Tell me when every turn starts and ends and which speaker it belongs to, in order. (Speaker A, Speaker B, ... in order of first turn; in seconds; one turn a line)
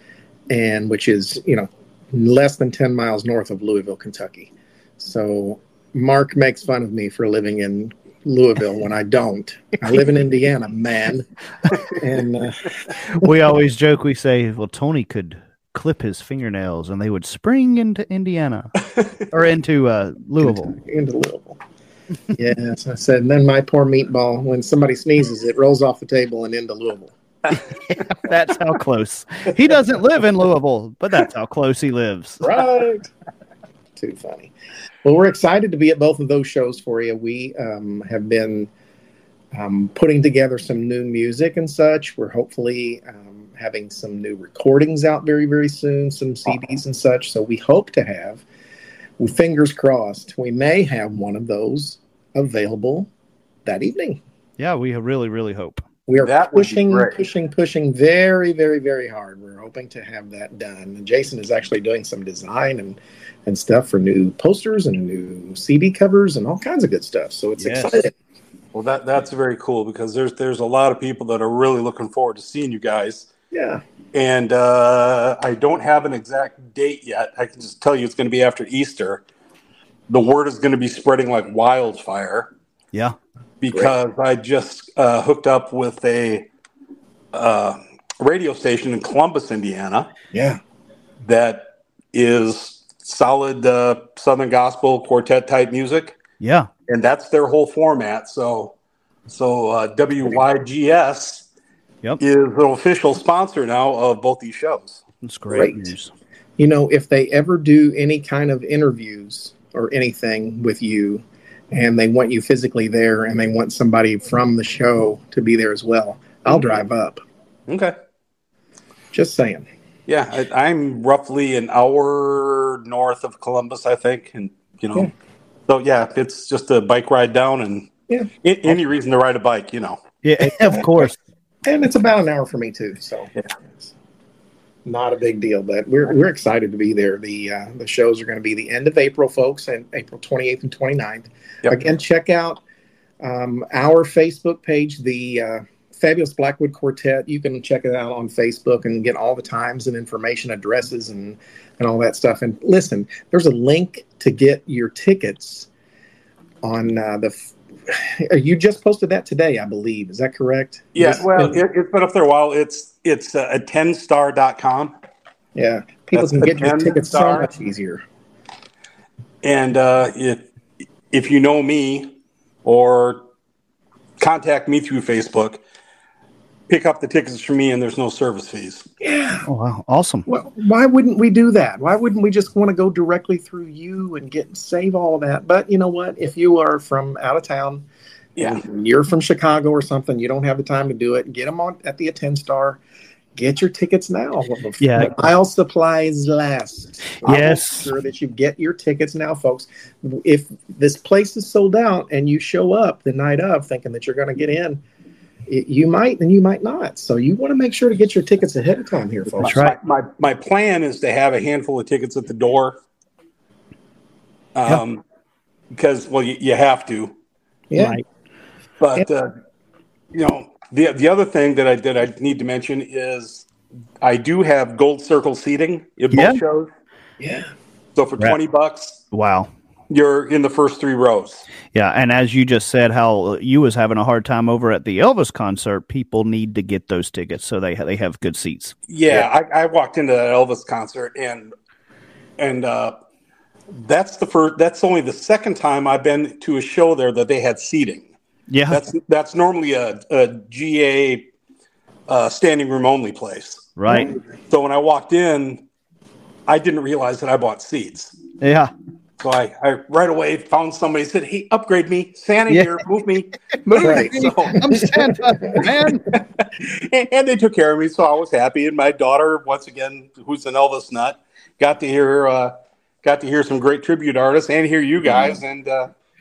Speaker A: 0.5-13.3
Speaker B: 13.1-18.7
Speaker B: 19.3-20.8
Speaker A: 20.4-21.6
Speaker A: 22.3-27.2
Speaker B: 27.5-32.5
Speaker A: 32.4-33.1
Speaker A: 34.0-34.5
Speaker A: 35.0-38.7
Speaker A: 39.5-48.4
Speaker A: 49.2-53.1
Speaker A: 53.6-54.2
Speaker B: 54.6-55.8
Speaker A: 56.1-68.1
Speaker C: 56.2-57.2
Speaker B: 67.6-68.0
Speaker C: 68.7-73.3
Speaker A: 73.5-73.8
Speaker C: 74.1-79.2
Speaker C: 80.1-82.5
Speaker C: 83.6-86.5
Speaker C: 87.3-90.1
Speaker A: 90.3-90.6
Speaker C: 91.2-96.2
Speaker B: 96.4-96.7
Speaker C: 96.9-98.7
Speaker C: 99.3-101.5
Speaker C: 102.2-105.0
Speaker B: 105.2-106.1
Speaker A: 105.5-105.9
Speaker A: 106.6-117.2
Speaker C: 117.7-118.0
Speaker A: 119.1-119.7
Speaker C: 120.1-125.1
Speaker C: 125.7-130.0
Speaker B: 130.2-131.2
Speaker A: 130.6-131.1
Speaker A: 131.7-133.9
Speaker A: 134.8-142.6
Speaker A: 143.2-155.7
Speaker A: 156.6-161.6
Speaker C: 160.9-164.9
Speaker A: 165.6-168.0
Speaker C: 166.1-167.5
Speaker C: 169.4-170.4
Speaker C: 171.1-172.1
Speaker C: 172.7-173.2
Speaker C: 174.2-175.6
Speaker C: 176.7-178.9
Speaker A: 179.0-179.5
Speaker B: 179.5-180.3
Speaker A: 180.3-187.9
Speaker C: 188.4-188.6
Speaker A: 188.4-192.8
Speaker A: 193.3-204.8
Speaker B: 194.8-195.3
Speaker B: 197.2-197.9
Speaker A: 205.5-209.6
Speaker C: 209.4-212.8
Speaker B: 209.4-209.8
Speaker C: 214.6-215.0
Speaker C: 215.7-217.2
Speaker A: 217.7-218.0
Speaker B: 217.8-218.0
Speaker C: 218.8-219.3
Speaker C: 220.1-223.5
Speaker C: 224.0-226.7
Speaker B: 226.1-226.4
Speaker A: 227.2-227.5
Speaker C: 228.0-229.0
Speaker B: 229.1-229.5
Speaker C: 229.9-231.5
Speaker B: 231.7-239.2
Speaker C: 238.9-241.5
Speaker C: 242.4-243.0
Speaker C: 243.7-248.1
Speaker B: 248.5-248.8
Speaker C: 248.7-251.3
Speaker C: 252.1-255.6
Speaker B: 253.8-254.1
Speaker C: 256.5-258.2
Speaker B: 258.4-258.7
Speaker C: 259.2-264.7
Speaker B: 262.5-262.8
Speaker B: 263.6-266.1
Speaker A: 263.8-265.6
Speaker C: 266.1-275.9